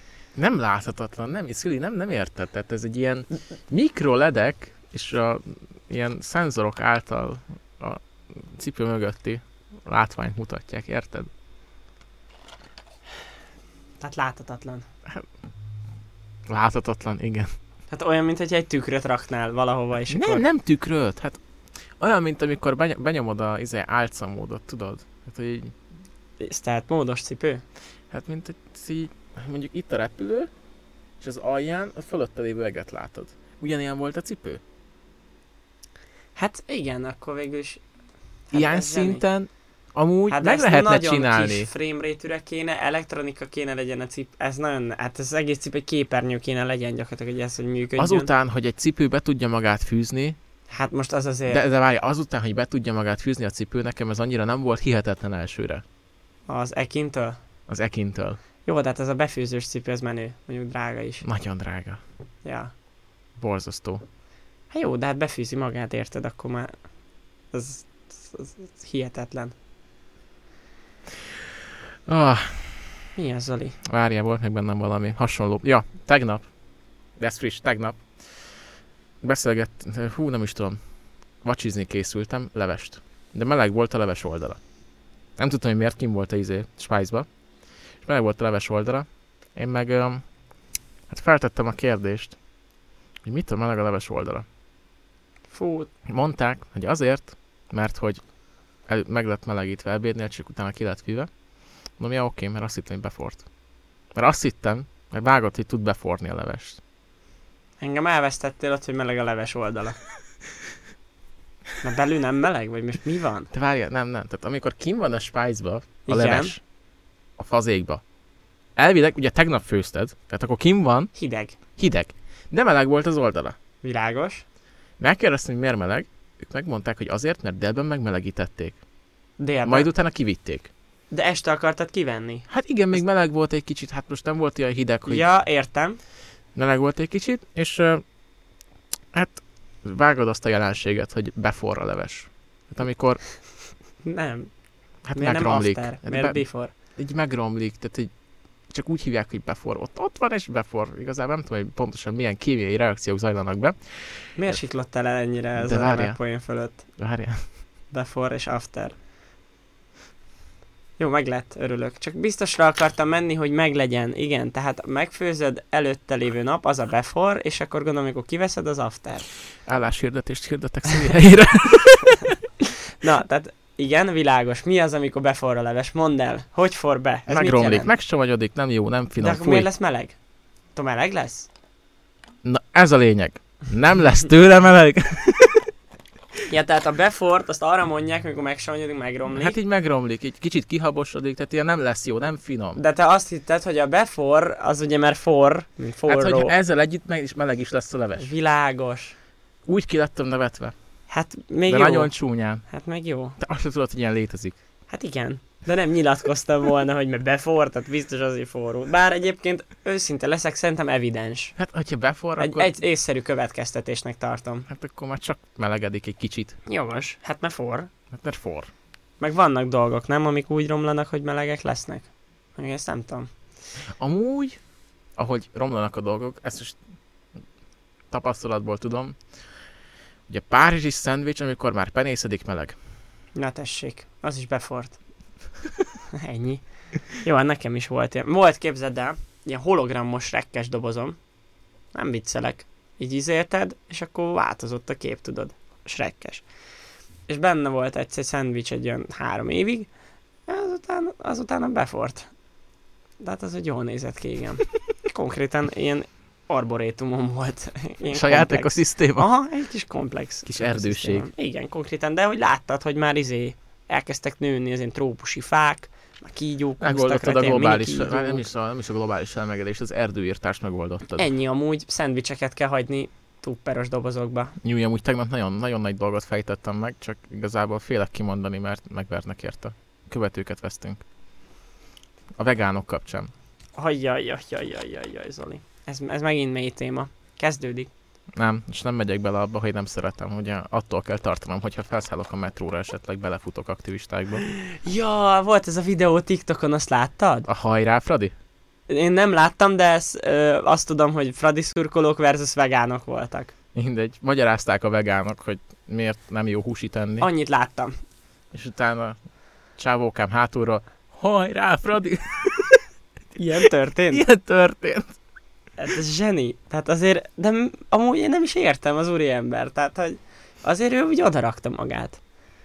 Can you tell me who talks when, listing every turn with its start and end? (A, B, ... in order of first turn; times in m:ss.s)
0:00.4-0:11.3 A
0:14.0-0:14.8 B
0:16.5-0:17.5 A
0:17.9-0:20.4 B
0:20.1-0:21.4 A
0:22.0-0:25.8 A
0:26.4-0:27.6 B
0:28.1-0:30.5 A
0:31.2-0:34.6 A
0:36.4-0:37.8 B
0:38.5-0:39.2 B
0:38.5-0:41.7 A
0:40.3-0:48.3 B
0:48.0-0:50.4 A
0:50.7-0:51.6 B
0:51.5-0:55.8 A
0:56.5-0:57.4 B
0:57.7-0:58.4 A
0:58.6-1:01.2 B
1:01.2-1:02.0 A
1:02.4-1:02.7 B
1:03.4-1:04.0 A
1:04.7-1:06.7 B
1:07.5-1:09.5 B
1:12.0-1:12.9 A
1:13.2-1:13.8 B
1:13.8-1:16.4 A
1:17.2-1:18.0 A
1:19.2-1:20.8 A
1:21.4-1:24.6 A
1:25.4-1:27.2 A
1:28.0-1:30.2 A
1:31.1-1:32.4 A
1:33.2-1:34.4 A
1:35.5-1:35.9 B
1:36.0-1:38.2 A
1:38.9-1:41.3 A
1:42.0-1:43.4 A
1:44.1-1:46.8 A
1:47.8-1:50.0 B
1:51.8-1:53.5 B
1:53.5-1:56.6 A
1:56.0-1:56.5 B
1:57.4-1:58.0 A
1:58.8-2:01.1 A
2:01.1-2:01.6 B
2:01.8-2:03.6 A
2:03.8-2:04.4 B
2:05.0-2:08.8 A
2:09.4-2:09.9 B
2:09.6-2:10.7 A
2:11.1-2:12.4 B
2:12.5-2:15.2 A
2:15.0-2:16.0 B
2:16.5-2:18.0 A
2:19.1-2:23.2 A
2:24.0-2:24.5 B
2:25.0-2:26.4 A
2:25.1-2:26.7 B
2:27.0-2:28.1 A
2:28.7-2:34.6 A
2:34.4-2:36.8 B
2:35.6-2:36.2 A
2:37.0-2:37.4 A
2:37.9-2:38.9 B
2:41.0-2:49.3 B
2:49.6-2:52.2 A
2:52.6-2:57.9 B
2:57.3-2:59.7 A
2:59.2-3:00.1 B
3:00.7-3:01.5 B
3:02.4-3:05.7 A
3:06.5-3:09.5 B
3:09.3-3:12.8 A
3:12.8-3:16.5 B
3:16.1-3:18.3 A
3:18.2-3:19.2 B
3:19.6-3:20.7 A
3:21.1-3:22.1 B
3:21.7-3:22.6 A
3:22.7-3:23.4 B
3:23.4-3:24.6 A
3:24.9-3:31.6 B
3:31.6-3:32.7 A
3:32.4-3:34.7 B
3:34.7-3:36.6 A
3:36.7-3:37.9 B
3:38.1-3:38.7 A
3:39.2-3:43.3 B
3:44.0-3:44.6 A
3:45.2-3:46.8 A
3:48.1-3:49.2 A
3:50.3-3:52.8 A
3:53.3-3:55.0 B
3:56.1-3:56.6 B
3:57.1-4:01.2 B
4:01.9-4:06.4 B
4:07.3-4:09.9 B
4:10.5-4:12.3 B
4:13.2-4:28.4 B
4:18.1-4:19.3 A
4:20.4-4:21.3 A
4:26.8-4:31.3 A
4:31.2-4:34.5 B
4:34.6-4:41.0 A
4:42.4-4:43.3 A
4:43.8-4:47.9 B
4:48.3-4:54.4 A
4:54.4-4:57.5 B
4:57.5-4:58.3 A
4:58.9-5:03.5 B
5:03.7-5:07.3 A
5:07.2-5:07.9 B
5:08.5-5:09.2 A
5:09.8-5:12.8 A
5:13.4-5:14.2 B
5:14.1-5:15.1 A
5:15.8-5:22.2 B